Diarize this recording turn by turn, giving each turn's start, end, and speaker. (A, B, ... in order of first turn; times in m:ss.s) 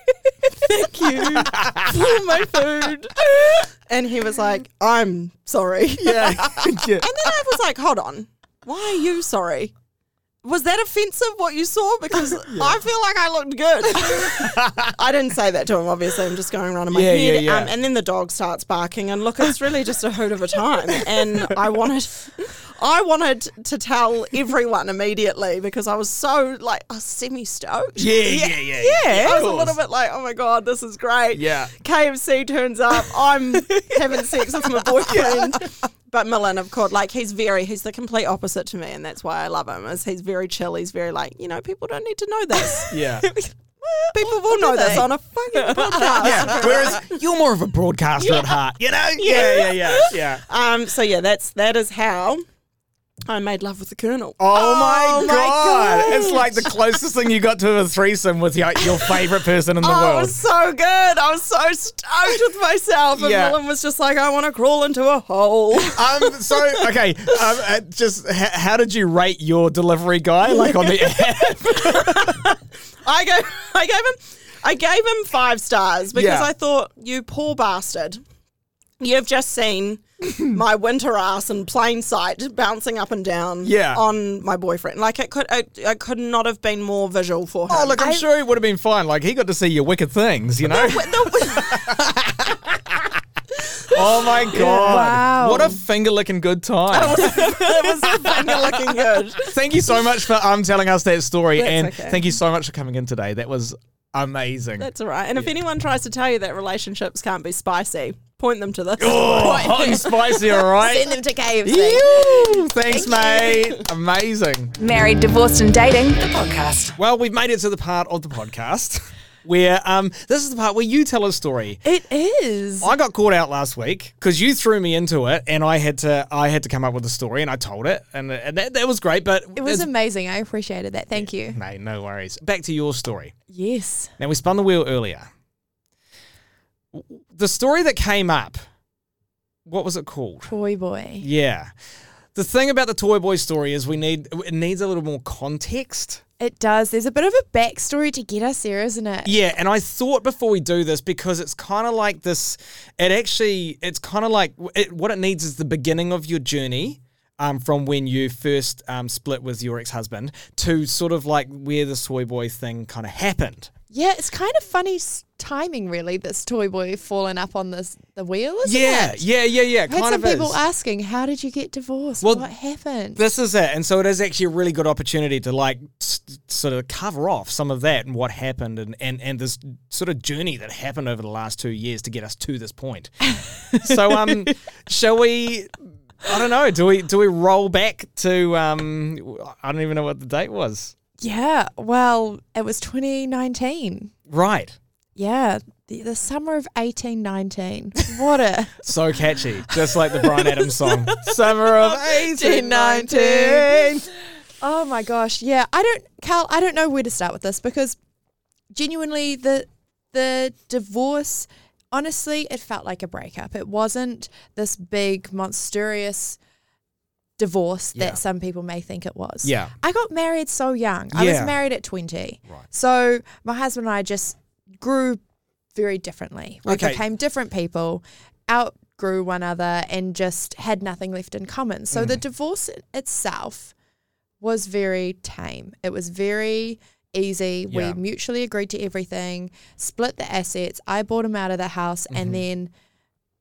0:00.5-0:09.7 A
0:01.2-0:02.1 B
0:06.0-0:07.1 B
0:10.4-0:43.0 A
0:12.5-0:12.8 B
0:14.0-0:14.9 B
0:16.9-0:17.7 B
0:21.0-0:21.6 B
0:28.0-0:29.8 B
0:28.7-0:29.4 C
0:31.3-0:31.7 B
0:33.7-0:35.3 C
0:35.1-0:35.6 B
0:42.6-0:47.0 C
0:42.9-0:43.3 B
0:44.1-0:47.2 A
0:46.2-0:50.4 B
0:48.2-0:48.5 A
0:49.2-0:52.4 A
0:53.3-0:56.4 A
0:54.4-1:00.4 B
0:55.0-0:56.5 C
0:58.9-0:59.3 A
0:59.8-1:06.6 A
1:03.2-1:03.6 B
1:05.9-1:12.6 B
1:10.7-1:18.2 A
1:16.1-1:16.5 B
1:19.0-1:28.0 A
1:23.6-1:24.0 B
1:27.7-1:33.2 B
1:28.0-1:28.2 C
1:30.7-1:32.0 A
1:33.8-1:34.8 A
1:33.9-1:45.5 B
1:34.5-1:35.8 C
1:36.9-1:39.5 A
1:41.6-1:42.3 A
1:44.8-1:50.6 A
1:49.0-1:54.8 B
1:50.6-1:53.6 C
1:54.8-1:57.0 D
1:57.0-2:01.8 B
2:01.8-2:02.9 C
2:02.8-2:09.9 B
2:09.6-2:11.6 C
2:11.1-2:13.3 B
2:13.5-2:14.1 C
2:14.2-2:15.3 B
2:16.9-2:18.6 B
2:19.6-2:20.5 B
2:20.5-2:21.3 C
2:21.2-2:21.7 B
2:22.3-2:26.2 B
2:26.4-2:29.3 C
2:29.2-2:43.7 B
2:43.9-2:49.2 C
2:48.6-2:50.6 B
2:49.9-2:53.2 C
2:52.2-2:52.5 B
2:53.2-3:03.1 B
3:03.7-3:04.5 C
3:03.7-3:10.9 B
3:11.2-3:14.1 C
3:14.3-3:14.8 B
3:15.2-3:18.9 C
3:18.8-3:24.1 B
3:20.2-3:23.9 C
3:24.6-3:28.0 C
3:28.7-3:36.4 C
3:37.4-3:45.2 C
3:37.9-3:38.2 B
3:39.4-3:39.7 B
3:41.1-3:41.5 B
3:45.7-3:53.7 C
3:46.7-3:47.0 B
3:51.9-3:52.2 B
3:54.4-4:02.7 C
3:57.7-3:58.0 B
4:02.1-4:02.4 B